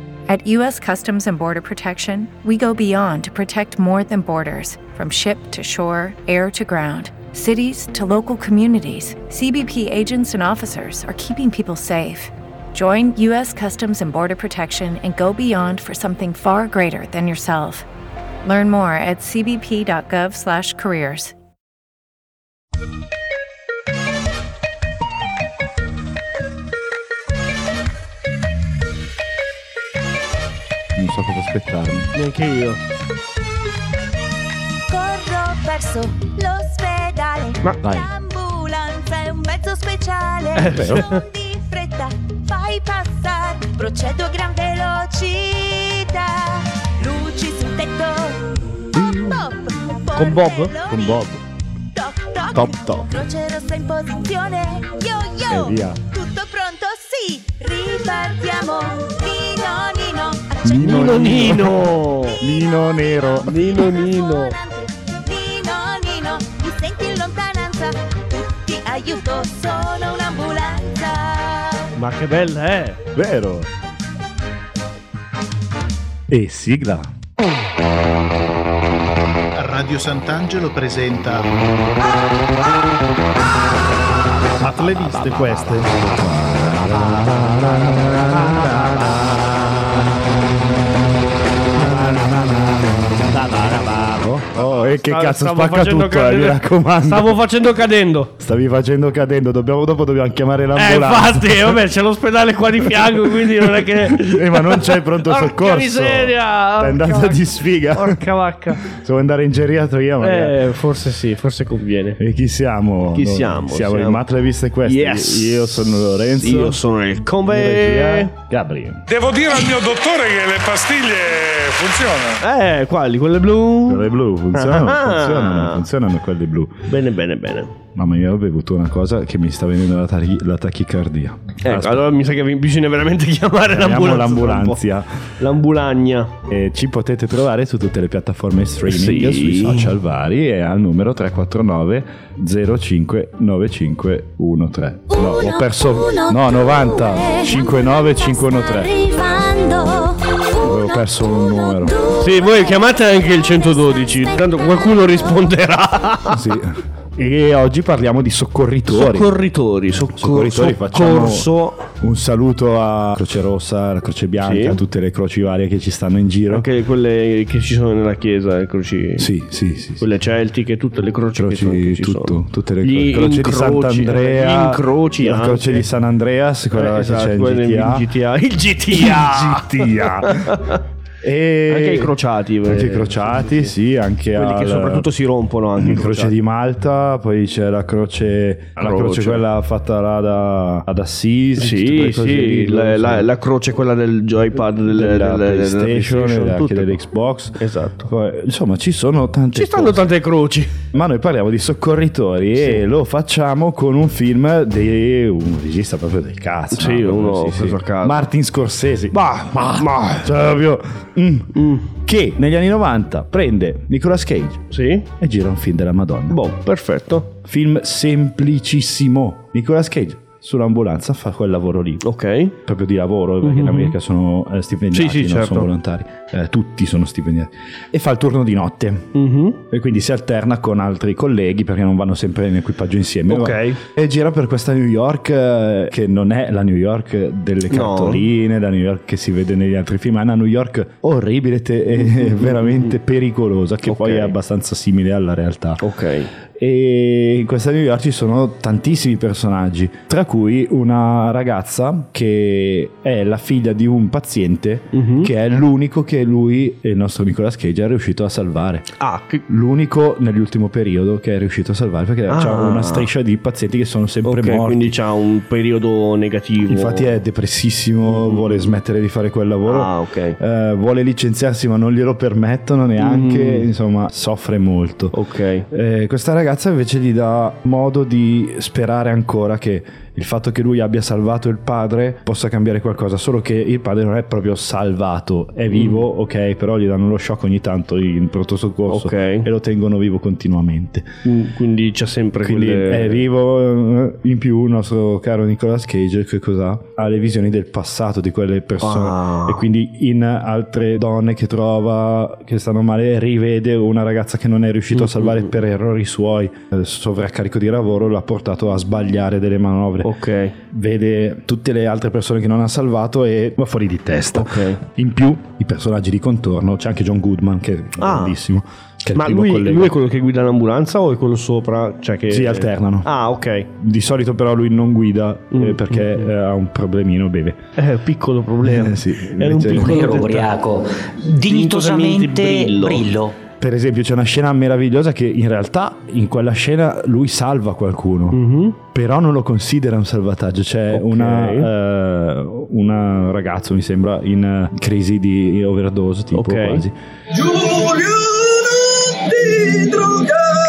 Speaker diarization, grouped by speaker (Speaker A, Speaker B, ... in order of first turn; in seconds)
Speaker A: 0.3-17.8, 18.4-21.3
Speaker B: 30.9-32.1, 37.8-38.1, 40.6-41.0, 49.0-49.3, 50.9-51.4, 52.5-53.1, 55.5-56.0, 60.6-63.6, 73.2-73.7, 76.3-77.1, 85.1-89.6, 91.7-97.3, 98.4-101.8, 102.9-108.2, 108.8-110.6, 112.2-116.8, 117.5-119.0, 123.9-126.8, 128.0-132.0, 133.7-135.1, 136.5-149.1, 150.6-152.0, 156.3-159.3, 160.2-166.7, 169.2-170.1, 171.4-178.1, 178.9-180.6, 181.2-182.1, 182.7-185.1, 185.8-193.3, 194.9-200.0, 200.9-216.4, 217.4-222.0, 222.6-229.1, 229.7-245.8, 246.5-258.9, 259.5-265.0, 266.7-275.1, 275.7-291.1, 292.4-310.1, 310.7-319.9, 322.3-323.1, 323.8-327.6, 328.6-330.1, 333.6-338.4, 338.9-346.9
Speaker C: 32.1-32.8, 40.5-41.2, 50.1-50.8, 60.8-62.4, 63.4-64.5, 72.0-73.0, 87.2-87.5, 94.6-98.3, 100.8-108.8, 110.2-112.2, 113.1-114.2, 114.8-118.3, 122.4-125.8, 126.9-127.8, 131.6-134.8, 135.4-136.3, 138.9-139.9, 152.2-156.4, 158.9-161.9, 164.4-164.8, 166.5-169.3, 170.0-175.8, 176.7-180.8, 181.7-183.7, 184.3-186.3, 188.8-189.4, 191.6-197.0, 197.6-198.1, 199.5-200.7, 206.7-208.2, 209.1-210.3, 211.6-211.8, 214.7-215.1, 216.3-217.3, 222.0-222.5, 223.4-223.9, 224.9-225.7, 229.1-229.6, 233.3-233.8, 237.7-238.2, 241.9-242.9, 243.9-244.3, 245.8-246.3, 254.9-255.3, 259.0-259.4, 262.3-263.1, 264.2-267.1, 268.1-268.7, 269.6-270.4, 273.0-273.7, 275.1-275.6, 285.7-286.0, 288.9-289.5, 291.2-293.2, 298.8-299.6, 304.9-305.5, 310.0-310.5, 314.3-314.8, 318.0-318.4, 319.1-323.7, 325.5-326.3, 327.8-330.5, 331.4-333.1, 338.3-338.8, 340.9-341.7, 346.3-346.8
Speaker D: 34.9-51.3, 51.9-71.9, 145.1-152.8, 153.5-153.8
Speaker E: 79.5-81.5, 84.6-85.7
Speaker F: 119.1-122.4
Speaker G: 329.7-333.3